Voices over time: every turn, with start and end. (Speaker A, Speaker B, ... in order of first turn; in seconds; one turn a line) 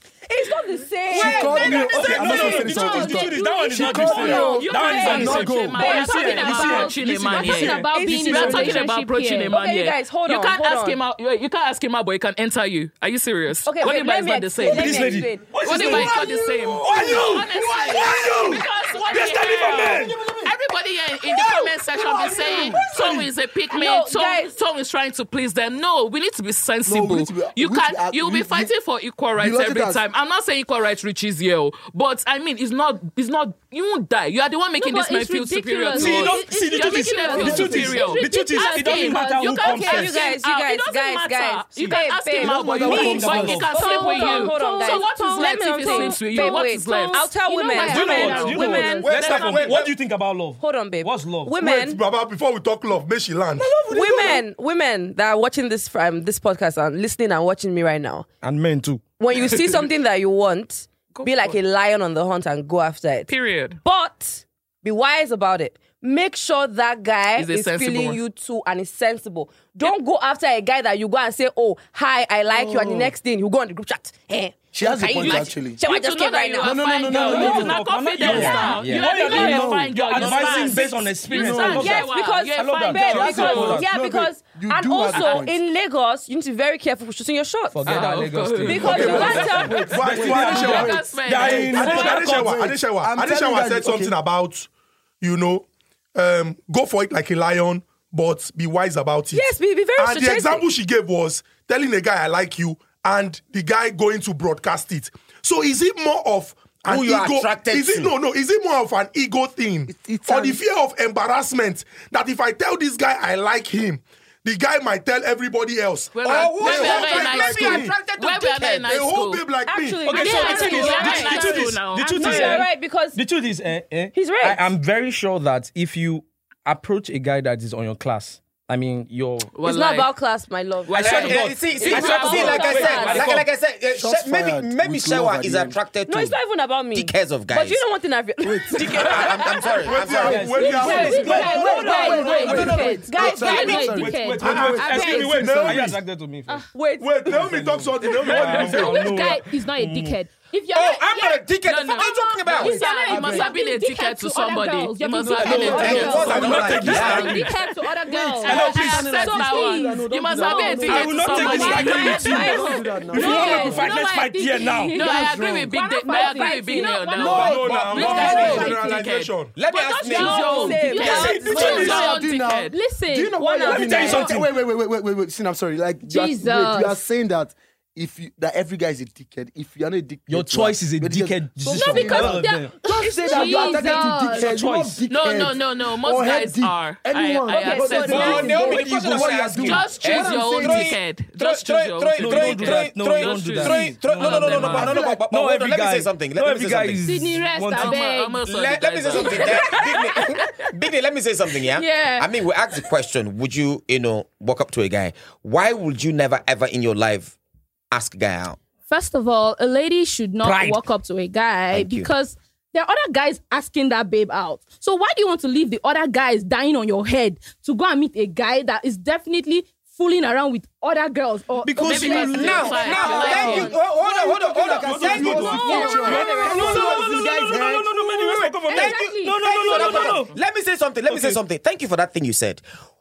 Speaker A: 0.3-3.4
Speaker B: 1.1-5.8
Speaker C: 1.2-1.7
Speaker D: 1.2-7.9
Speaker E: 2.2-4.5
Speaker A: 4.0-8.9
Speaker F: 4.2-15.1
Speaker E: 5.8-9.6
Speaker A: 9.5-11.0
Speaker A: 13.6-15.4
Speaker D: 14.6-20.2
Speaker F: 15.6-49.5
Speaker B: 15.7-18.6
Speaker B: 19.3-20.6
Speaker B: 21.2-23.3
Speaker A: 23.7-24.5
Speaker B: 26.8-28.7
Speaker B: 29.4-30.0
Speaker E: 34.8-40.4
Speaker D: 35.9-40.2
Speaker B: 37.3-38.0
Speaker A: 39.6-49.7
Speaker B: 42.4-43.6
Speaker D: 42.6-43.8
Speaker E: 43.6-49.1
Speaker D: 47.8-51.5
Speaker C: 49.0-50.0
Speaker A: 50.6-52.0
Speaker G: 51.6-53.7
Speaker D: 53.6-54.4
Speaker A: 53.9-58.3
Speaker B: 54.0-54.4
Speaker D: 58.4-59.1
Speaker A: 59.2-77.6
Speaker F: 59.3-59.7
Speaker F: 61.1-61.6
Speaker F: 63.3-63.8
Speaker F: 67.3-68.2
Speaker B: 72.5-73.1
Speaker B: 74.7-75.8
Speaker F: 75.2-83.8
Speaker B: 76.6-80.6
Speaker D: 77.1-83.9
Speaker C: 78.3-78.8
Speaker B: 81.3-82.0
Speaker A: 81.6-89.9
Speaker B: 83.0-85.6
Speaker F: 85.1-85.4
Speaker D: 87.7-92.8
Speaker F: 87.8-89.3
Speaker B: 88.7-94.1
Speaker G: 88.8-91.0
Speaker F: 90.4-92.2
Speaker G: 91.7-94.7
Speaker G: 95.2-118.0
Speaker A: 99.3-100.7
Speaker C: 106.8-108.1
Speaker B: 109.9-110.6
Speaker F: 116.1-119.5
Speaker C: 116.2-119.0
Speaker G: 118.8-120.1
Speaker A: 119.7-123.2
Speaker D: 120.0-129.5
Speaker F: 120.2-122.6
Speaker E: 120.4-121.3
Speaker A: 124.1-124.7
Speaker F: 129.5-130.1
Speaker A: 129.6-133.3
Speaker F: 130.9-133.2
Speaker D: 130.9-133.4
Speaker C: 131.0-136.4
Speaker B: 133.9-135.8
Speaker A: 136.1-139.7
Speaker C: 136.9-137.8
Speaker B: 138.4-139.3
Speaker C: 138.8-141.2
Speaker G: 139.8-141.5
Speaker B: 140.0-146.0
Speaker D: 140.1-142.8
Speaker E: 140.6-145.5
Speaker A: 141.7-143.7
Speaker C: 142.6-143.9
Speaker D: 143.6-146.7
Speaker G: 144.4-146.0
Speaker A: 146.7-147.4
Speaker G: 147.0-149.0
Speaker D: 147.2-150.2
Speaker E: 148.6-169.0
Speaker C: 150.7-152.8
Speaker F: 151.6-157.6
Speaker B: 152.6-153.5
Speaker D: 155.4-157.5
Speaker B: 155.4-157.3
Speaker C: 155.7-157.5
Speaker A: 155.7-156.5
Speaker G: 156.1-156.9
Speaker F: 158.2-163.3
Speaker B: 158.3-163.9
Speaker D: 158.4-159.1
Speaker D: 160.8-165.0
Speaker F: 164.9-169.3
Speaker B: 164.9-165.8
Speaker A: 166.1-166.9
Speaker B: 167.2-168.7
Speaker G: 167.3-169.5
Speaker C: 169.5-171.4
Speaker E: 169.7-174.4
Speaker F: 170.0-172.8
Speaker A: 170.0-172.0
Speaker D: 171.2-172.0
Speaker B: 171.4-190.9
Speaker D: 173.6-174.5
Speaker E: 176.0-177.0
Speaker D: 180.3-182.8
Speaker E: 181.7-184.6
Speaker D: 183.3-185.0
Speaker F: 185.1-195.0
Speaker E: 187.5-188.5
Speaker C: 188.0-197.0
Speaker D: 188.0-189.4
Speaker D: 192.2-198.0
Speaker B: 194.8-195.1
Speaker E: 197.0-198.4
Speaker F: 197.7-199.9
Speaker C: 198.4-207.3
Speaker E: 199.1-200.7
Speaker E: 201.5-202.8
Speaker C: 207.9-208.6
Speaker E: 208.9-223.5
Speaker D: 210.4-210.8
Speaker C: 211.7-212.1
Speaker D: 221.6-222.7
Speaker F: 221.8-223.7
Speaker C: 222.2-225.8
Speaker A: 222.8-223.7
Speaker B: 222.9-228.0
Speaker D: 224.8-230.3
Speaker A: 225.5-227.0
Speaker E: 225.5-230.2
Speaker C: 228.7-232.6
Speaker D: 231.1-231.4